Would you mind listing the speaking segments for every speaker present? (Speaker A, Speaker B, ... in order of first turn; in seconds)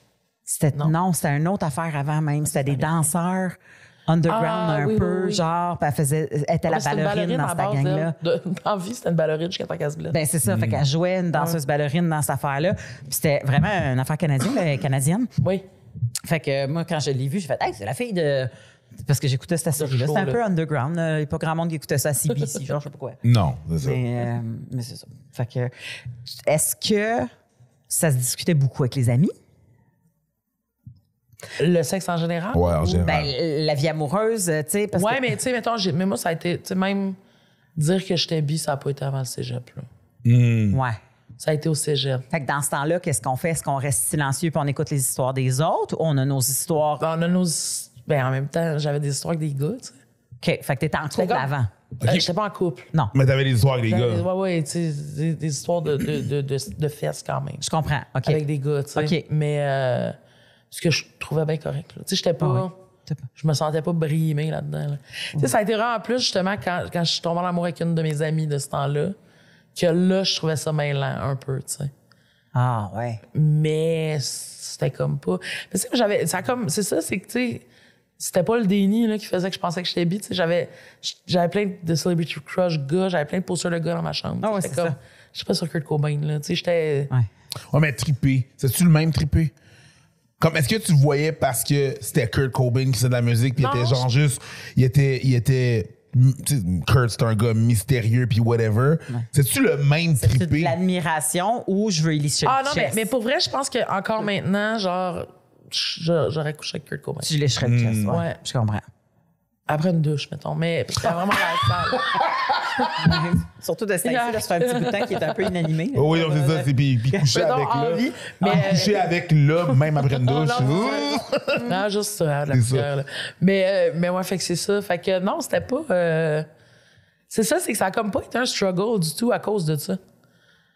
Speaker A: 0.5-8.1, 10.1-15.3, 16.2-23.2, 23.8-25.7, 26.4-27.3, 27.9-29.3, 33.0-35.3, 40.7-41.0, 42.3-47.0, 50.4-51.7, 57.6-58.4, 59.0-59.2, 62.4-63.2, 72.5-73.2, 84.4-85.0, 100.2-103.1, 107.2-108.8, 112.9-117.2, 118.4-118.9
Speaker B: 2.6-2.9, 4.3-5.4, 6.7-10.2, 19.8-20.4, 31.6-33.0, 34.9-37.2, 37.8-39.9, 41.4-42.2, 47.0-50.0, 51.1-51.5, 52.0-52.9, 53.9-57.6, 58.2-60.2, 60.7-62.7, 63.4-69.1, 69.7-71.9, 73.3-77.6, 78.2-87.1, 93.6-94.0, 102.4-107.3, 108.1-108.4, 109.7-112.2, 114.0-115.5, 117.2-119.1, 120.1-126.5, 127.3-130.0
Speaker C: 10.4-10.8, 23.2-24.0, 32.5-33.3, 40.2-40.8, 52.0-52.3, 53.1-54.2, 87.7-89.5, 90.4-100.8, 107.6-108.2, 112.0-113.1, 115.9-121.8, 122.5-122.9